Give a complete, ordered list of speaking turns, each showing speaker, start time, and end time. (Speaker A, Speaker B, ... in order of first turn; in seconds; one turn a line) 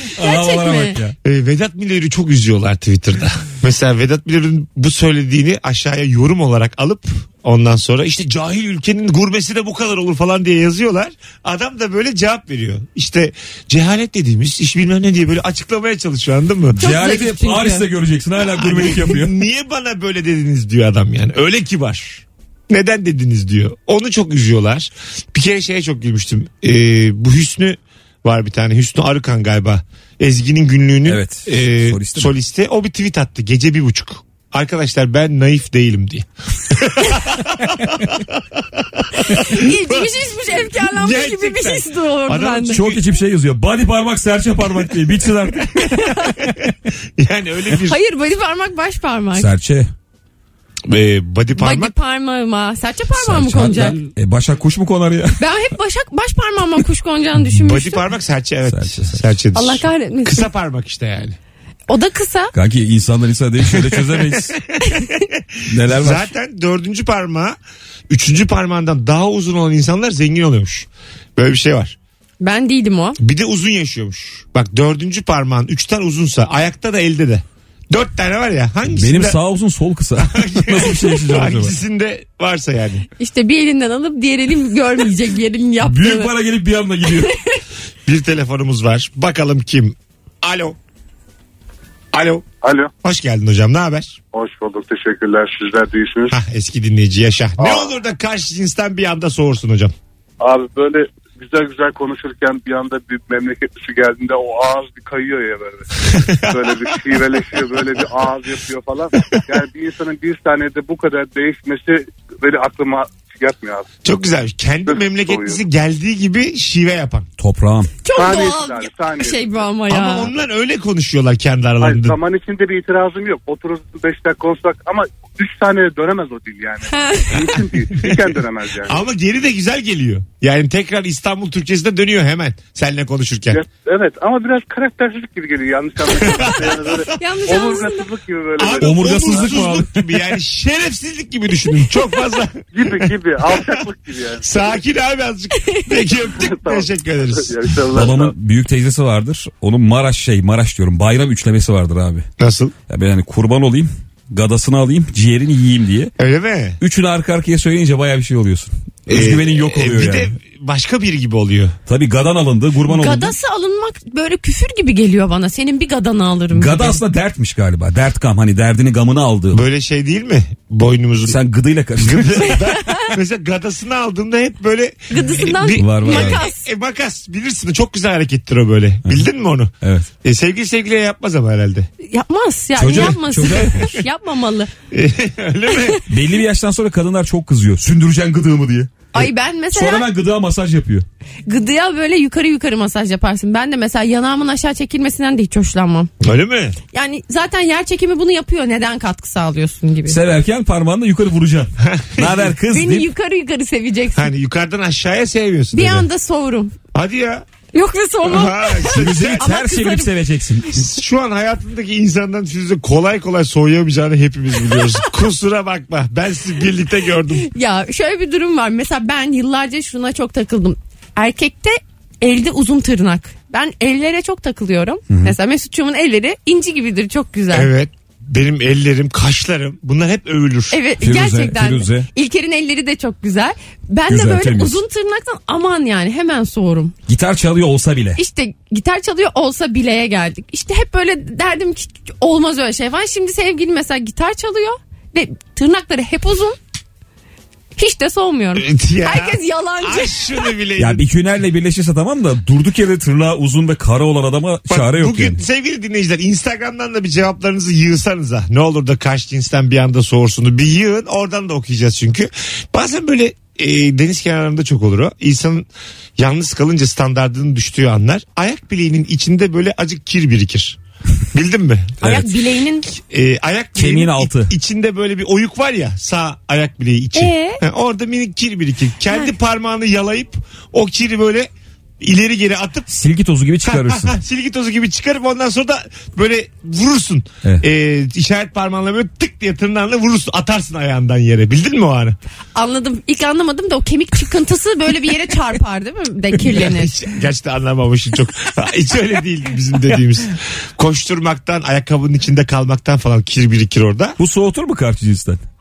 Speaker A: 0.2-1.1
Speaker B: 0.2-1.0
Speaker C: 1.2-16.8
Speaker A: 16.7-19.4
Speaker B: 16.8-17.9
Speaker C: 18.4-43.1
Speaker A: 31.1-32.3
Speaker A: 37.8-38.0
Speaker B: 39.3-42.8
Speaker A: 42.7-46.0
Speaker B: 45.8-46.4
Speaker C: 46.4-48.0
Speaker B: 47.9-49.5
Speaker A: 49.4-49.9
Speaker C: 50.9-52.0
Speaker B: 51.5-54.0
Speaker A: 53.1-55.4
Speaker B: 55.4-58.1
Speaker C: 57.5-61.4
Speaker A: 58.7-59.2
Speaker B: 59.5-60.5
Speaker B: 61.9-62.5
Speaker A: 62.5-64.5
Speaker C: 63.7-67.6
Speaker A: 65.7-66.3
Speaker C: 68.1-72.0
Speaker B: 72.4-73.2
Speaker C: 73.2-79.4
Speaker A: 78.9-81.8
Speaker C: 80.2-83.1
Speaker B: 83.2-86.3
Speaker A: 85.8-87.3
Speaker C: 88.1-90.8
Speaker C: 92.1-92.5
Speaker D: 92.6-92.9
Speaker C: 93.0-94.2
Speaker D: 94.3-96.3
Speaker C: 96.3-99.9
Speaker D: 97.6-98.0
Speaker D: 100.4-113.9
Speaker C: 106.2-107.3
Speaker C: 114.0-117.3
Speaker D: 114.9-115.6
Speaker A: 117.4-117.9
Speaker B: 118.0-120.3
Speaker D: 118.1-119.7
Speaker C: 119.9-122.2
Speaker D: 121.8-129.0
Speaker B: 126.9-127.4
Speaker C: 128.8-133.6
Speaker D: 133.5-139.7
Speaker C: 136.2-137.0
Speaker B: 137.2-138.1
Speaker C: 138.6-143.8
Speaker A: 138.8-139.9
Speaker D: 142.7-144.7
Speaker C: 144.4-148.0
Speaker D: 146.3-148.3
Speaker A: 147.9-152.2
Speaker C: 152.4-152.8
Speaker A: 152.9-156.1
Speaker C: 156.2-156.8
Speaker A: 156.8-160.3
Speaker C: 159.1-161.8
Speaker A: 161.9-163.3
Speaker B: 162.9-167.0
Speaker A: 166.5-169.6
Speaker C: 169.5-171.4
Speaker A: 171.2-172.6
Speaker C: 172.0-181.9
Speaker B: 172.8-173.1
Speaker B: 175.1-176.7
Speaker A: 175.7-176.4
Speaker A: 179.8-180.1
Speaker B: 182.0-184.7
Speaker A: 182.8-184.0
Speaker C: 184.9-186.0
Speaker B: 185.7-186.0
Speaker A: 186.1-191.1
Speaker B: 189.1-190.1
Speaker B: 191.5-196.1
Speaker C: 196.2-196.8
Speaker B: 196.9-200.2
Speaker A: 200.1-203.1
Speaker C: 201.8-202.5
Speaker B: 202.7-204.3
Speaker C: 204.2-206.1
Speaker B: 205.7-206.8
Speaker C: 206.9-207.5
Speaker B: 207.7-210.2
Speaker C: 208.2-209.5
Speaker A: 208.9-210.8
Speaker C: 210.7-217.5
Speaker B: 217.4-227.7
Speaker A: 225.1-225.4
Speaker C: 227.5-230.8
Speaker B: 230.7-236.9
Speaker A: 231.0-232.1
Speaker A: 234.1-234.8
Speaker A: 237.1-238.2
Speaker B: 238.2-246.6
Speaker B: 247.8-250.5
Speaker C: 248.6-251.1
Speaker A: 250.8-255.4
Speaker C: 254.7-270.8
Speaker C: 271.3-272.3
Speaker B: 272.0-272.9
Speaker C: 272.9-282.9
Speaker A: 273.8-274.5
Speaker B: 277.1-277.6
Speaker A: 282.9-284.1
Speaker C: 283.6-292.2
Speaker B: 292.6-296.9
Speaker C: 296.4-304.2
Speaker A: 304.2-305.4